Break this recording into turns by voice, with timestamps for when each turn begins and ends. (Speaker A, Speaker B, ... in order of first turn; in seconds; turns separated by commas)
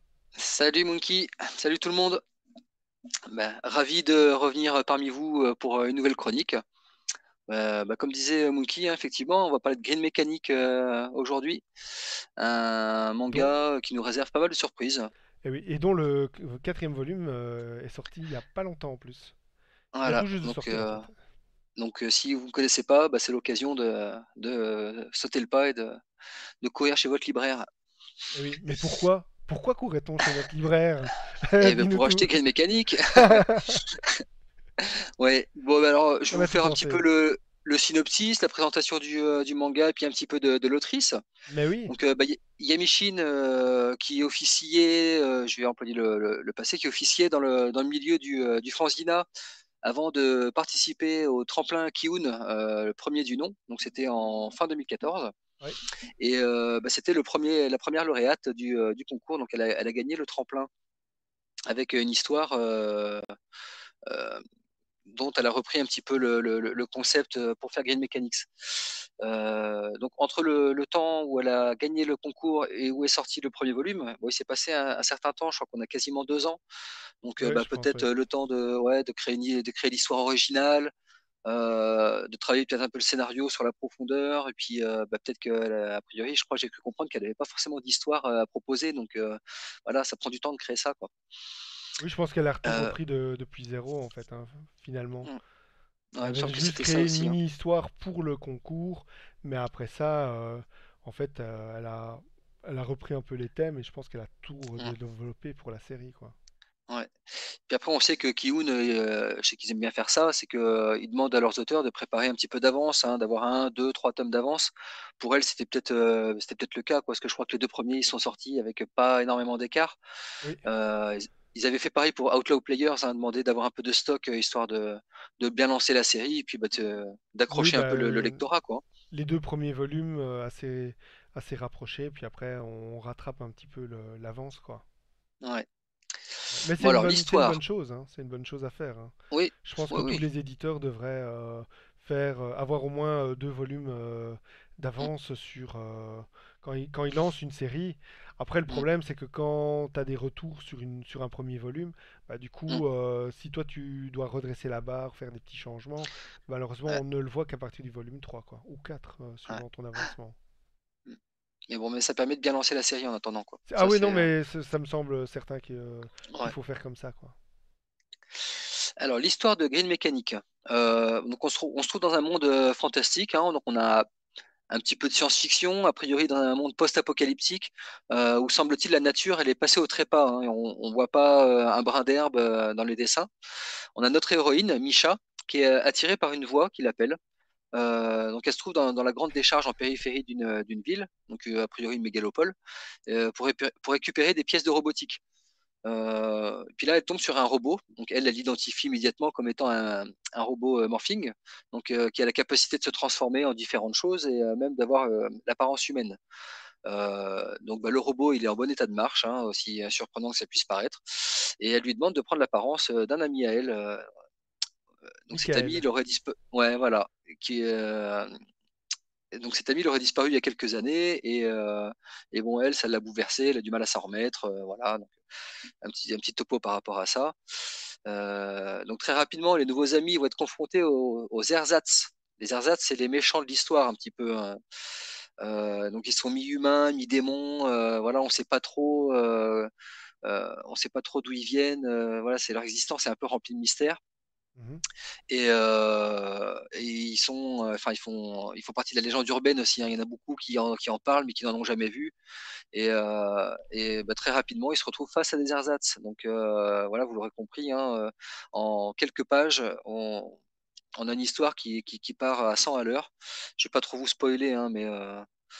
Speaker A: 0.4-2.2, Speaker A: 3.3-6.6, Speaker A: 7.5-11.7, Speaker A: 12.4-15.1, Speaker B: 15.4-19.4, Speaker A: 19.9-21.1, Speaker B: 20.1-21.1, Speaker A: 21.8-26.0, Speaker A: 26.6-27.7, Speaker B: 28.3-32.3, Speaker A: 31.6-34.2, Speaker B: 33.1-33.9, Speaker A: 34.8-41.2, Speaker B: 36.3-37.0, Speaker B: 41.5-41.9, Speaker A: 41.9-49.2, Speaker A: 49.8-55.3, Speaker A: 56.2-60.7, Speaker A: 61.7-63.2, Speaker A: 64.1-64.4, Speaker A: 65.1-76.6, Speaker A: 77.2-80.9, Speaker B: 77.4-78.1, Speaker A: 81.5-91.1, Speaker B: 92.0-95.3, Speaker A: 92.7-92.9, Speaker A: 96.2-97.4, Speaker B: 96.2-106.4, Speaker A: 106.9-120.0, Speaker A: 120.6-128.8, Speaker B: 127.5-128.4, Speaker B: 129.1-134.8, Speaker A: 136.3-137.6, Speaker B: 136.5-160.4, Speaker A: 139.3-140.2, Speaker A: 161.7-164.3, Speaker B: 163.7-167.4, Speaker A: 168.4-174.1, Speaker A: 174.7-183.3, Speaker A: 184.0-187.2, Speaker A: 187.7-192.5, Speaker A: 193.1-195.2, Speaker A: 195.8-206.2, Speaker A: 206.8-214.1, Speaker A: 215.3-218.4, Speaker B: 215.3-215.8, Speaker A: 219.3-225.2, Speaker A: 225.8-227.3, Speaker A: 228.1-234.6, Speaker A: 235.4-239.7, Speaker A: 240.2-244.0, Speaker B: 244.6-244.8, Speaker A: 245.3-252.1, Speaker A: 252.7-260.4, Speaker A: 261.0-265.3